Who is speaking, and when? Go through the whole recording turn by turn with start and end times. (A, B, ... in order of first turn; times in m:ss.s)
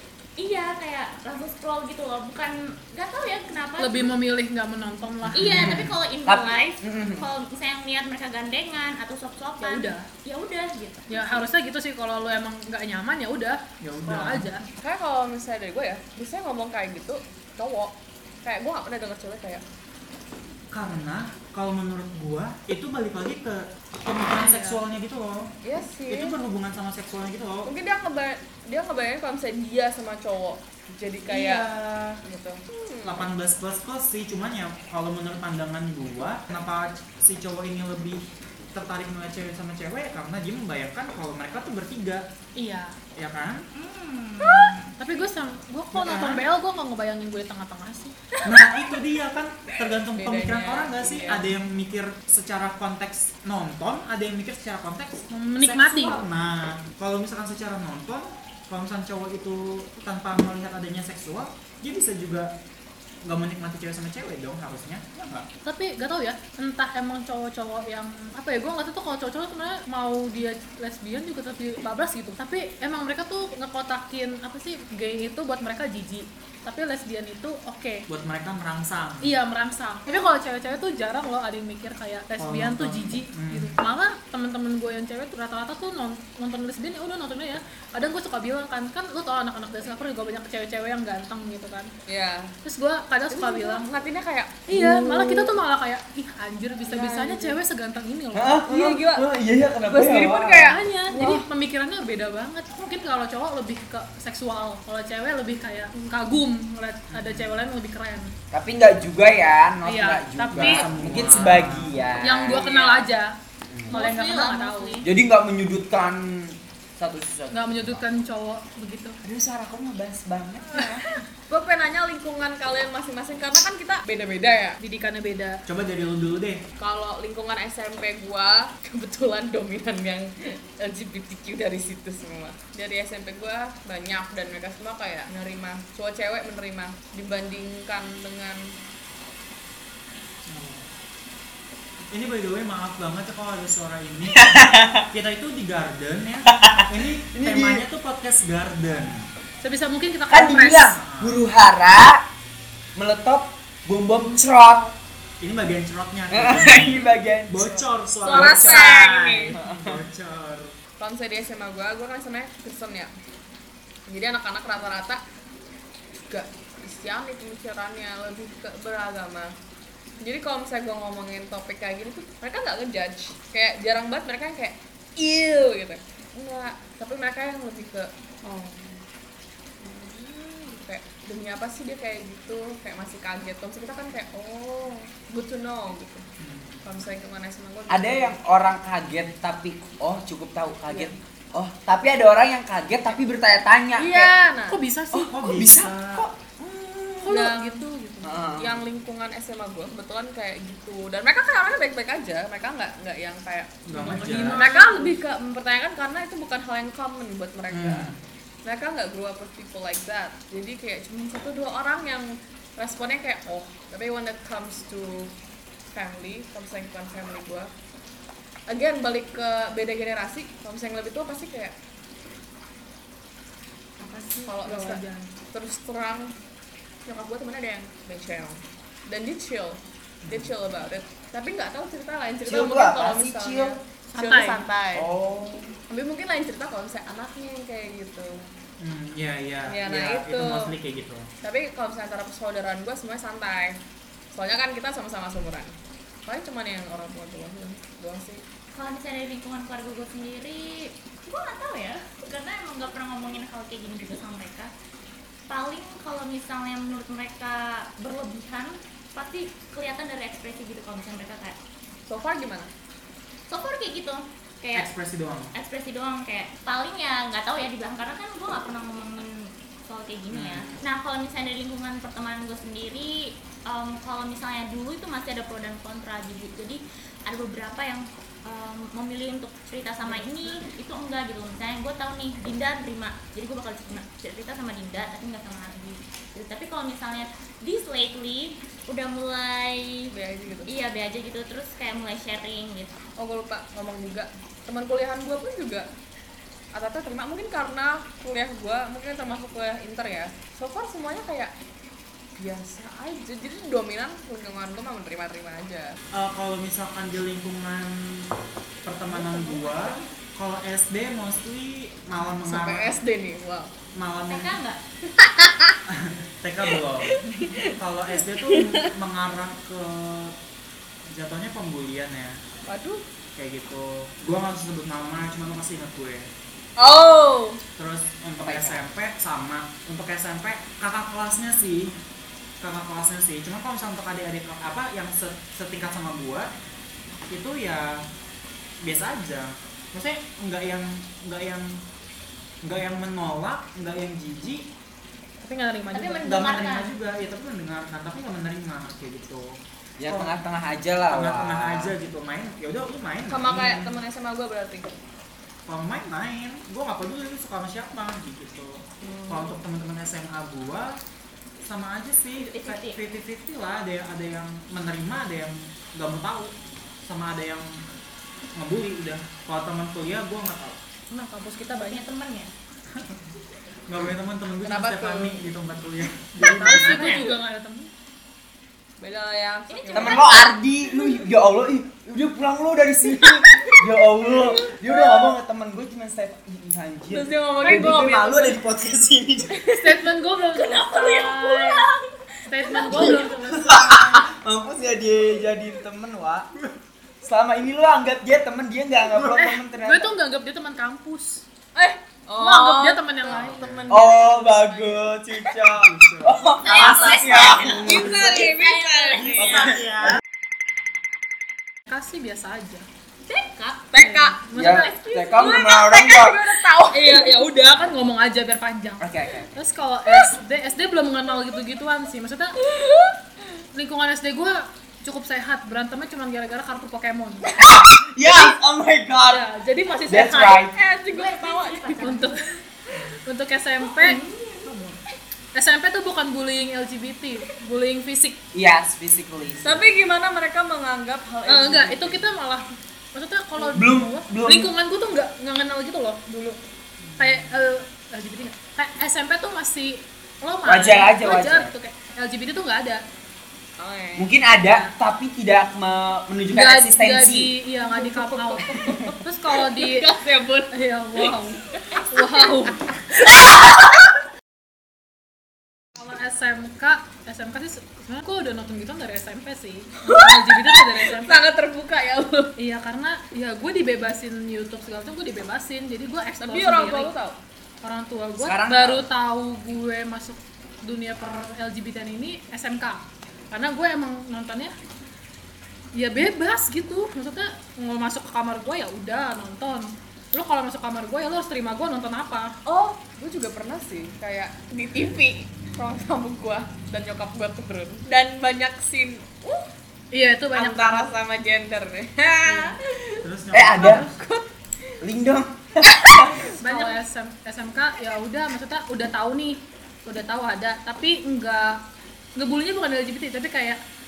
0:00.4-0:04.1 A
0:03.8-0:05.8 B
0:05.3-0:06.0 C
0:05.3-0:11.4 A
0:06.3-0:07.3 D
0:09.6-0:10.1 B
0:11.1-0:14.6 B
0:13.8-0:14.5 C
0:14.8-0:19.6 E
0:20.7-0:25.5 C
0:24.3-0:24.8 B
0:25.6-0:26.4 E
0:26.1-0:27.7 C
0:27.6-0:31.7 E
0:31.3-0:32.2 C
0:32.2-0:33.3 E
0:33.0-0:38.2 C
0:38.7-0:42.2 C
0:42.6-0:43.0 B
0:43.2-0:43.7 C
0:43.7-0:44.9 A
0:44.4-0:48.2 B
0:45.9-0:46.4 C
0:48.4-1:02.5 C
0:50.1-0:51.5 E
0:55.3-0:56.2 B
1:03.2-1:05.5 C
1:05.6-1:18.1 B
1:18.1-1:19.3 C
1:19.2-1:31.9 B
1:22.4-1:23.8 C
1:32.1-1:32.6 E
1:32.6-1:33.9 B
1:33.3-1:35.6 E
1:34.7-1:38.6 B
1:36.9-1:37.6 E
1:38.3-1:40.8 D
1:38.6-1:39.3 E
1:39.9-1:41.5 E
1:40.6-1:48.3 B
1:47.1-1:47.6 C
1:48.5-1:52.6 D
1:49.8-1:50.9 B
1:50.5-1:52.1 C
1:52.2-1:53.3 B
1:52.5-1:53.1 E
1:53.7-1:54.0 D
1:53.9-1:55.0 B
1:53.9-1:55.0 A
1:55.0-1:58.0 D
1:57.5-1:59.2 B
1:59.2-2:01.1 D
2:01.5-2:04.8 E
2:04.8-2:05.6 B
2:05.7-2:06.6 C
2:06.8-2:18.6 E
2:20.5-2:20.9 C
2:22.1-2:29.3 C
2:24.4-2:25.1 D
2:26.5-2:27.8 D
2:29.6-2:30.9 B
2:30.3-2:32.2 D
2:30.8-2:31.4 C
2:33.0-2:34.9 D
2:35.4-2:40.7 C
2:36.3-2:39.0 D
2:38.2-2:39.6 E
2:39.5-2:40.0 D
2:41.0-2:43.1 E
2:44.1-2:45.2 E
2:46.3-2:49.5 E
2:50.2-2:59.0 E
2:59.8-3:06.2 E
3:06.4-3:06.8 C
3:06.8-3:08.4 E
3:07.9-3:14.3 D
3:10.9-3:11.2 E
3:14.0-3:14.8 E
3:14.7-3:15.3 B
3:15.1-3:17.5 D
3:15.3-3:16.3 C
3:17.2-3:17.9 B
3:17.3-3:28.1 E
3:18.2-3:18.8 D
3:23.8-3:24.7 C
3:23.9-3:25.2 B
3:27.7-3:28.2 C
3:28.6-3:35.3 E
3:35.9-3:37.7 E
3:38.7-3:41.8 E
3:44.0-3:45.3 B
3:44.4-3:46.3 E
3:47.1-3:55.1 E
3:50.2-3:50.5 C
3:52.4-3:53.8 D
3:54.1-3:54.6 B
3:54.9-3:55.7 D
3:55.9-3:58.5 E
3:58.8-4:01.3 C
3:59.7-4:00.7 E
4:01.4-4:03.8 E
4:04.3-4:05.8 E
4:06.3-4:08.4 E
4:08.7-4:14.7 A
4:15.5-4:21.6 A
4:22.1-4:22.7 E
4:23.5-4:24.9 A
4:24.7-4:25.5 C
4:25.5-4:50.1 A
4:30.3-4:30.8 C
4:50.1-4:50.7 E
4:50.7-4:52.9 A
4:53.2-4:55.9 E
4:56.7-5:01.5 E
5:02.4-5:06.0 E
5:06.1-5:08.3 C
5:08.8-5:13.0 C
5:09.2-5:10.0 A
5:12.4-5:13.7 E
5:14.0-5:14.6 C
5:14.3-5:15.1 A
5:15.2-5:15.8 E
5:15.9-5:20.4 C
5:17.0-5:17.8 E
5:18.4-5:18.9 E
5:21.1-5:22.4 C
5:22.7-5:23.0 E
5:23.4-5:26.3 C
5:26.8-5:27.6 E
5:27.8-5:31.9 C
5:28.4-5:28.8 D
5:32.6-5:36.5 C
5:37.3-5:38.0 C
5:38.8-5:41.8 C
5:42.6-5:44.7 C
5:45.4-5:46.6 B
5:45.9-5:46.9 A
5:46.2-5:49.6 C
5:50.0-5:51.9 D
5:50.1-5:50.4 C
5:51.1-5:54.0 C
5:53.3-5:54.9 E
5:55.7-6:00.9 C
5:59.0-5:59.6 E
6:01.6-6:07.7 C
6:02.4-6:03.0 A
6:08.6-6:10.8 C
6:11.6-6:12.0 E
6:11.6-6:12.5 A
6:12.9-6:13.2 C
6:13.9-6:17.3 C
6:14.6-6:15.4 E
6:16.4-6:17.9 B
6:16.4-6:17.2 E
6:19.0-6:20.5 E
6:19.7-6:20.5 A
6:19.9-6:29.6 D
6:23.1-6:25.3 E
6:27.1-6:28.6 E
6:29.5-6:31.9 E
6:29.8-6:31.9 B
6:32.5-6:34.3 B
6:32.7-6:33.3 E
6:32.9-6:36.5 D
6:37.2-6:40.1 D
6:39.3-6:41.4 B
6:41.8-6:45.4 E
6:42.4-6:43.6 B
6:43.3-6:43.9 C
6:43.9-6:48.5 D
6:45.7-6:47.6 C
6:46.6-6:49.7 A
6:46.6-6:49.7 E
6:49.2-6:50.2 C
6:49.4-6:50.2 D
6:51.9-6:52.9 B
6:53.3-6:53.8 A
6:53.9-6:57.8 E
6:54.0-6:55.6 B
6:54.5-6:56.4 D
6:57.0-7:02.6 B
6:59.0-6:59.5 D
7:02.6-7:03.2 E
7:03.7-7:07.5 B
7:07.5-7:09.4 D
7:09.3-7:10.6 B
7:10.1-7:10.8 D
7:10.7-7:12.2 E
7:11.1-7:12.5 A
7:12.0-7:12.5 B
7:13.3-7:14.2 B
7:13.9-7:14.7 A
7:15.6-7:18.4 B
7:18.5-7:19.8 D
7:19.6-7:22.2 E
7:21.5-7:26.6 B
7:23.8-7:24.7 D
7:27.0-7:27.5 C
7:27.2-7:33.0 B
7:30.7-7:31.7 D
7:33.8-7:34.3 E
7:34.2-7:37.5 D
7:36.5-7:38.6 B
7:37.8-7:44.0 E
7:38.8-7:39.1 D
7:39.2-7:40.1 B
7:40.7-7:42.8 B
7:46.0-7:51.4 B
7:50.0-7:52.5 E
7:52.6-7:57.1 B
7:56.4-7:57.4 E
7:57.8-8:04.7 B
7:58.4-7:59.1 D
8:06.0-8:12.5 B
8:12.6-8:19.7 E
8:20.1-8:21.1 B
8:20.6-8:23.2 E
8:23.2-8:24.2 C
8:23.5-8:24.0 D
8:23.8-8:24.9 E
8:25.0-8:26.5 D
8:26.4-8:27.0 E
8:26.6-8:31.8 B
8:32.4-8:33.8 B